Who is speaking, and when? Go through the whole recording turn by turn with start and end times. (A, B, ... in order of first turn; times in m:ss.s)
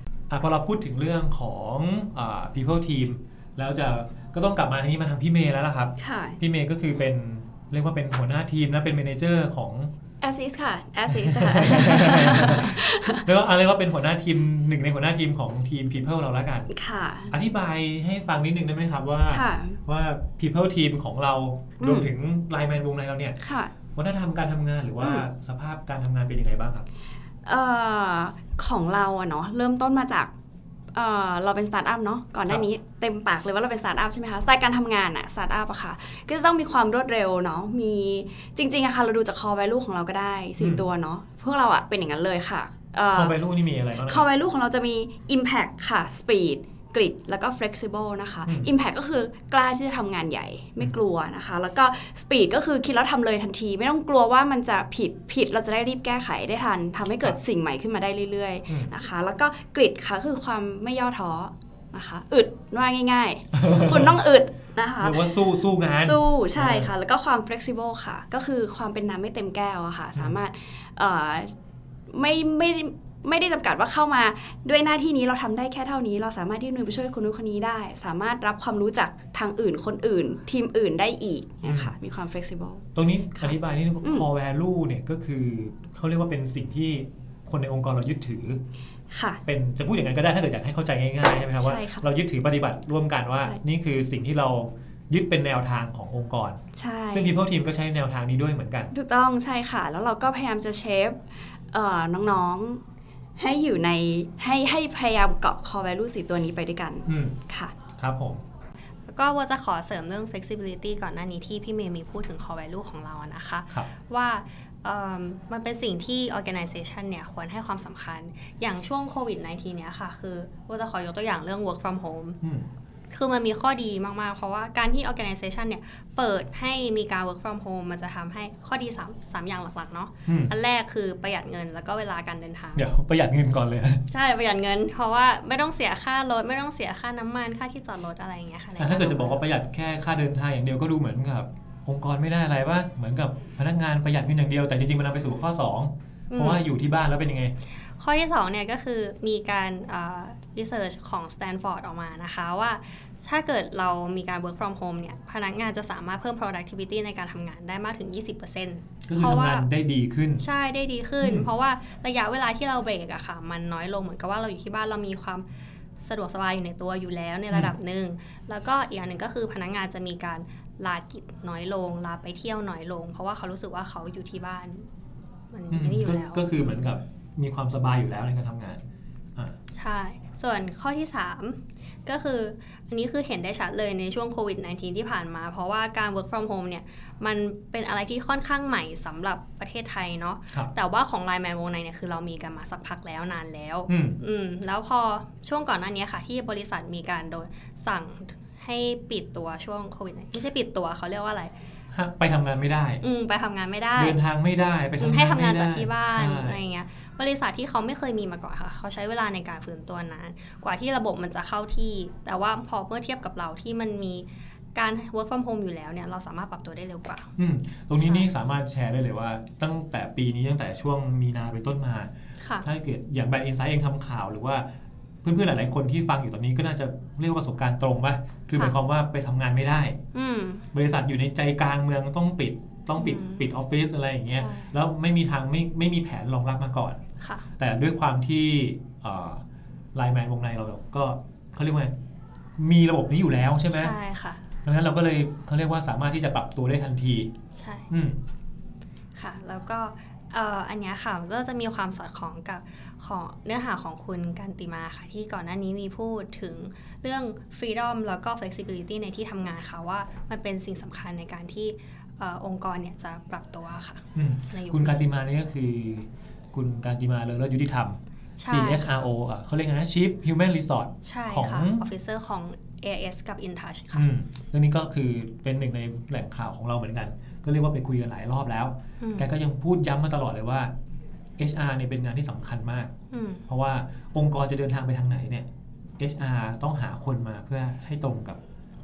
0:00.3-0:09.9 A
0:06.0-0:06.4 B
0:10.2-0:13.2 B
0:11.1-0:16.7 A
0:16.7-0:17.3 B
0:17.3-0:23.4 A
0:19.3-0:19.8 B
0:21.8-0:22.1 B
0:23.4-0:23.7 B
0:23.9-0:26.9 A
0:25.0-0:25.2 B
0:27.4-0:30.3 B
0:30.9-0:43.4 B
0:40.6-0:40.8 A
0:43.0-0:44.3 A
0:44.0-1:05.4 B
1:03.5-1:04.2 A
1:05.0-1:06.9 A
1:06.0-1:11.5 B
1:12.1-1:22.9 B
1:21.6-1:21.9 A
1:22.9-1:28.6 A
1:23.4-1:24.2 B
1:29.1-1:29.4 B
1:29.4-1:38.9 A
1:31.5-1:32.0 B
1:36.7-1:37.4 B
1:38.9-1:42.8 B
1:43.4-1:47.7 B
1:47.1-1:47.4 A
1:47.9-1:48.4 A
1:49.1-2:02.4 C
2:02.4-2:02.7 A
2:03.1-2:12.8 C
2:10.3-2:10.5 A
2:12.7-2:14.0 A
2:14.1-2:19.4 C
2:18.8-2:27.5 A
2:26.3-2:26.6 C
2:28.0-2:39.7 C
2:39.0-2:40.4 A
2:40.4-2:45.4 C
2:41.2-2:41.5 A
2:46.0-2:54.8 C
2:55.5-2:56.8 C
2:55.7-2:58.8 A
2:59.7-3:21.5 C
3:13.9-3:14.2 A
3:21.9-3:23.0 A
3:23.0-3:24.2 C
3:24.0-3:26.6 A
3:25.0-3:37.3 C
3:37.4-3:42.1 A
3:38.0-3:38.3 C
3:42.4-3:42.6 C
3:42.6-3:44.6 A
3:45.2-3:50.0 A
3:50.1-3:50.6 C
3:50.7-3:57.0 A
3:53.0-3:53.4 C
3:54.3-3:54.7 C
3:57.2-3:57.4 C
3:57.6-3:59.4 A
3:59.9-4:01.9 A
4:02.6-4:03.9 A
4:03.7-4:04.4 C
4:04.6-4:07.3 A
4:07.5-4:07.9 C
4:07.9-4:08.2 A
4:09.2-4:25.0 C
4:24.1-4:31.8 A
4:28.4-4:28.8 C
4:31.0-4:34.1 C
4:33.9-4:40.7 A
4:39.0-4:39.3 C
4:41.4-4:42.9 A
4:43.1-4:43.4 C
4:43.5-4:45.5 A
4:46.0-4:48.4 A